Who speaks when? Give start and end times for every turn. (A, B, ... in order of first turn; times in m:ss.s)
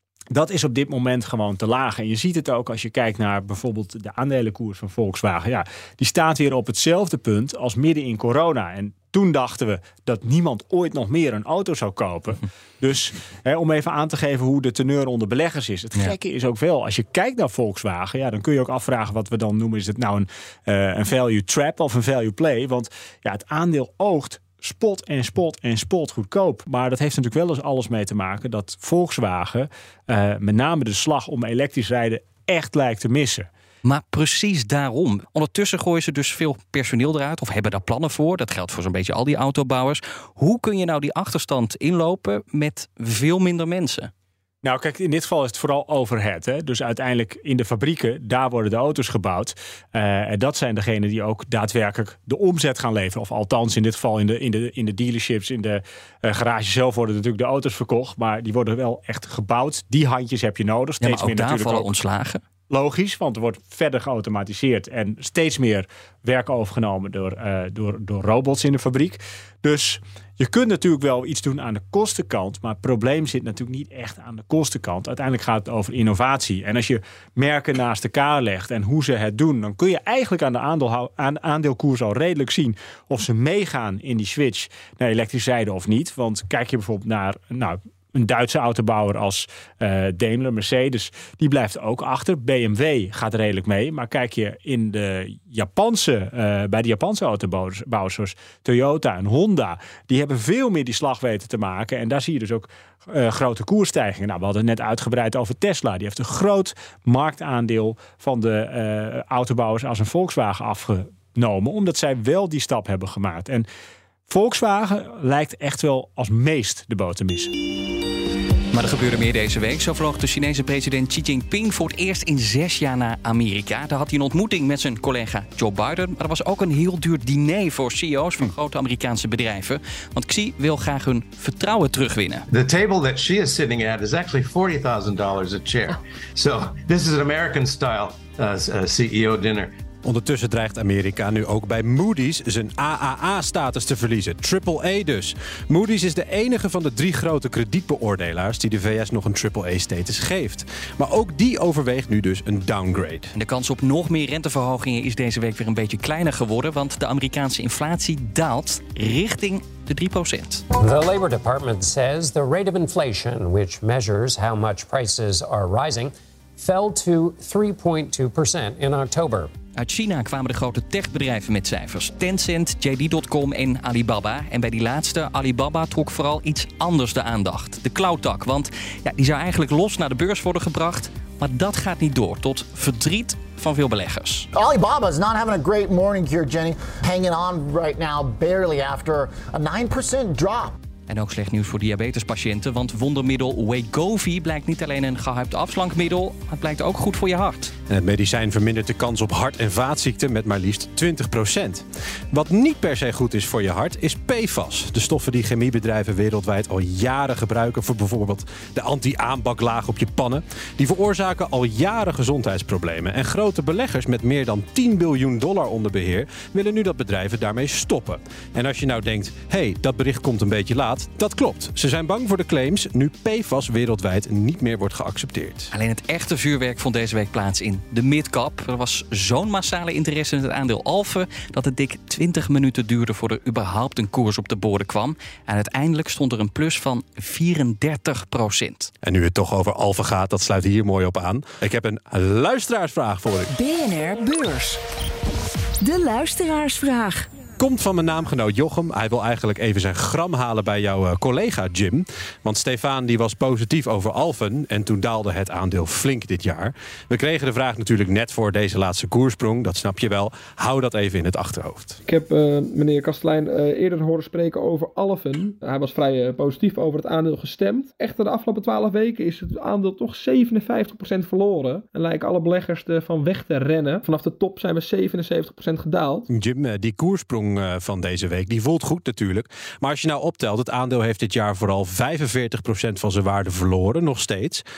0:00.3-0:33.5 A
0:33.8-0:44.1 B
0:44.6-1:01.9 A
1:01.0-1:02.4 B
1:02.7-1:53.7 A
1:54.3-1:57.5 A
1:58.7-2:12.5 B
2:12.5-2:19.7 C
2:20.0-2:33.3 D
2:33.3-2:40.6 B
2:40.8-2:49.5 E
2:49.8-3:04.5 B
3:04.5-3:10.7 F
3:11.1-3:17.7 B
3:17.9-3:45.7 D
3:45.7-3:58.9 B
3:59.0-4:03.6 D
4:03.5-4:04.8 G
4:05.8-4:07.3 G
4:07.6-4:22.0 D
4:22.1-4:36.3 H
4:36.3-4:44.6 D